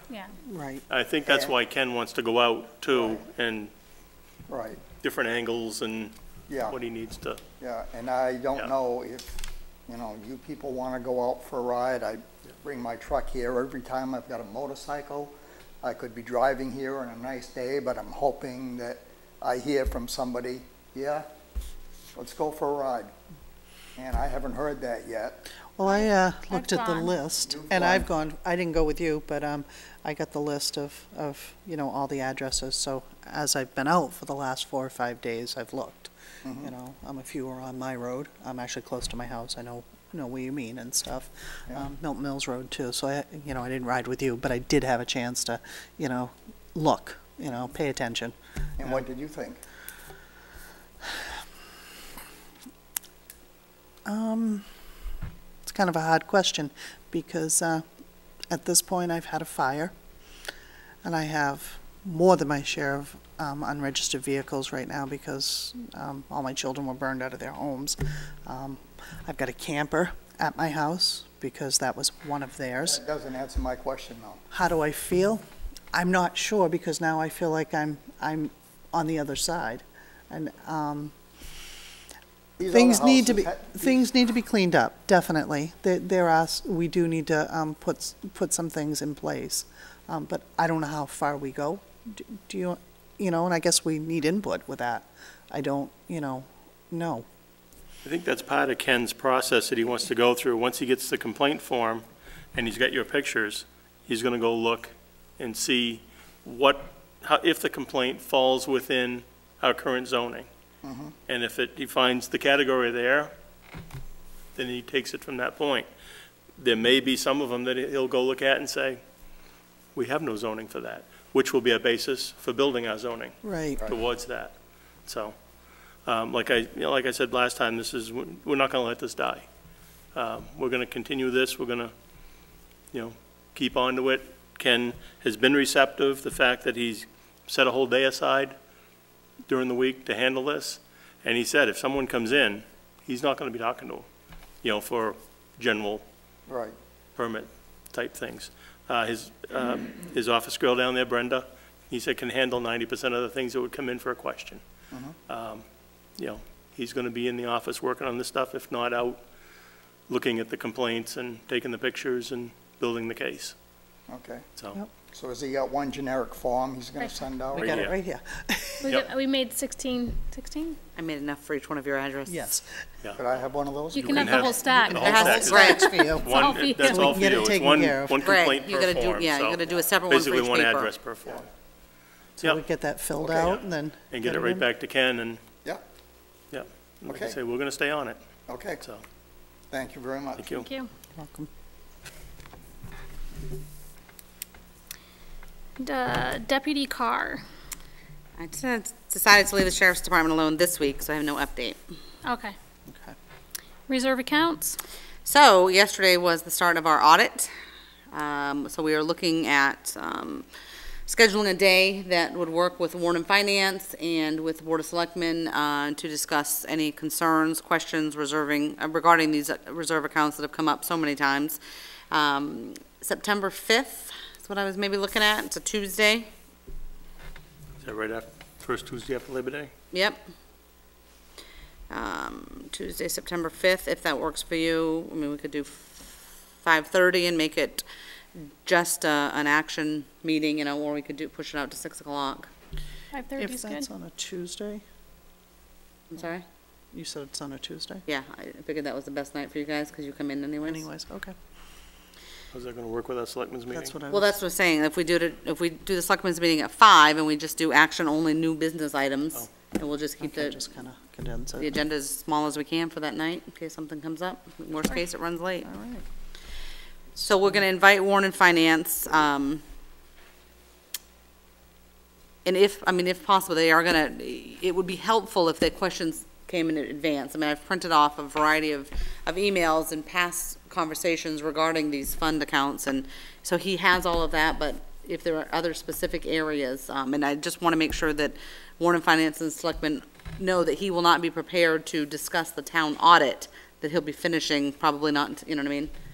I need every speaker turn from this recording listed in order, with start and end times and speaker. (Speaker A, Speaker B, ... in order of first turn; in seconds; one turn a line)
Speaker A: 0.4-0.8
Speaker B: 0.9-3.7
Speaker C: 1.2-1.5
Speaker C: 2.9-3.2
Speaker C: 4.5-4.8
Speaker B: 4.9-6.1
Speaker C: 6.5-6.8
Speaker B: 6.7-7.4
Speaker C: 7.6-21.2
Speaker C: 22.1-23.1
Speaker C: 23.9-25.4
Speaker A: 25.7-49.0
Speaker D: 25.9-27.1
Speaker C: 27.4-28.1
Speaker C: 36.4-36.7
Speaker C: 48.8-49.6
Speaker A: 54.0-54.6
Speaker A: 55.6-57.8
Speaker A: 58.5-59.9
Speaker A: 61.0-73.0
Speaker C: 72.8-74.4
Speaker A: 74.5-81.1
Speaker C: 82.6-84.0
Speaker A: 82.7-97.2
Speaker B: 98.0-110.5
Speaker C: 110.8-111.1
Speaker B: 111.3-113.3
Speaker B: 114.5-115.9
Speaker B: 116.6-119.0
Speaker B: 119.9-124.5
Speaker A: 123.4-123.8
Speaker B: 125.0-125.3
Speaker B: 126.0-129.5
Speaker B: 130.1-131.9
Speaker B: 132.9-138.6
Speaker B: 139.5-144.1
Speaker B: 144.6-146.0
Speaker C: 146.5-146.7
Speaker B: 147.2-154.6
Speaker B: 155.3-155.6
Speaker B: 156.2-159.2
Speaker B: 160.1-163.5
Speaker C: 164.1-164.4
Speaker C: 165.1-167.9
Speaker A: 167.5-169.0
Speaker B: 167.6-167.9
Speaker D: 168.8-170.8
Speaker E: 170.9-172.4
Speaker A: 172.3-172.7
Speaker C: 173.2-174.7
Speaker D: 173.9-177.4
Speaker B: 173.9-181.4
Speaker A: 174.9-178.3
Speaker E: 174.9-175.9
Speaker E: 178.2-180.9
Speaker A: 182.4-184.7
Speaker C: 183.2-183.6
Speaker B: 183.4-185.4
Speaker B: 186.5-188.2
Speaker C: 187.1-187.4
Speaker C: 188.5-188.8
Speaker C: 189.7-190.5
Speaker B: 190.4-190.7
Speaker A: 191.2-191.5
Speaker D: 195.8-197.4
Speaker E: 198.4-201.8
Speaker D: 202.2-202.6
Speaker A: 202.9-203.2
Speaker D: 203.9-204.8
Speaker E: 205.2-207.5
Speaker E: 208.1-210.4
Speaker E: 211.1-221.6
Speaker E: 222.1-226.3
Speaker B: 227.8-229.7
Speaker E: 229.9-230.2
Speaker E: 231.9-237.8
Speaker E: 238.6-242.5
Speaker D: 243.1-243.8
Speaker A: 243.4-244.8
Speaker E: 246.1-246.4
Speaker A: 246.9-248.0
Speaker E: 248.1-250.8
Speaker A: 250.6-251.3
Speaker B: 252.5-253.9
Speaker A: 253.7-254.3
Speaker E: 254.1-260.6
Speaker A: 260.2-261.7
Speaker E: 261.6-265.6
Speaker A: 265.6-266.0
Speaker E: 267.2-269.6
Speaker E: 272.4-295.9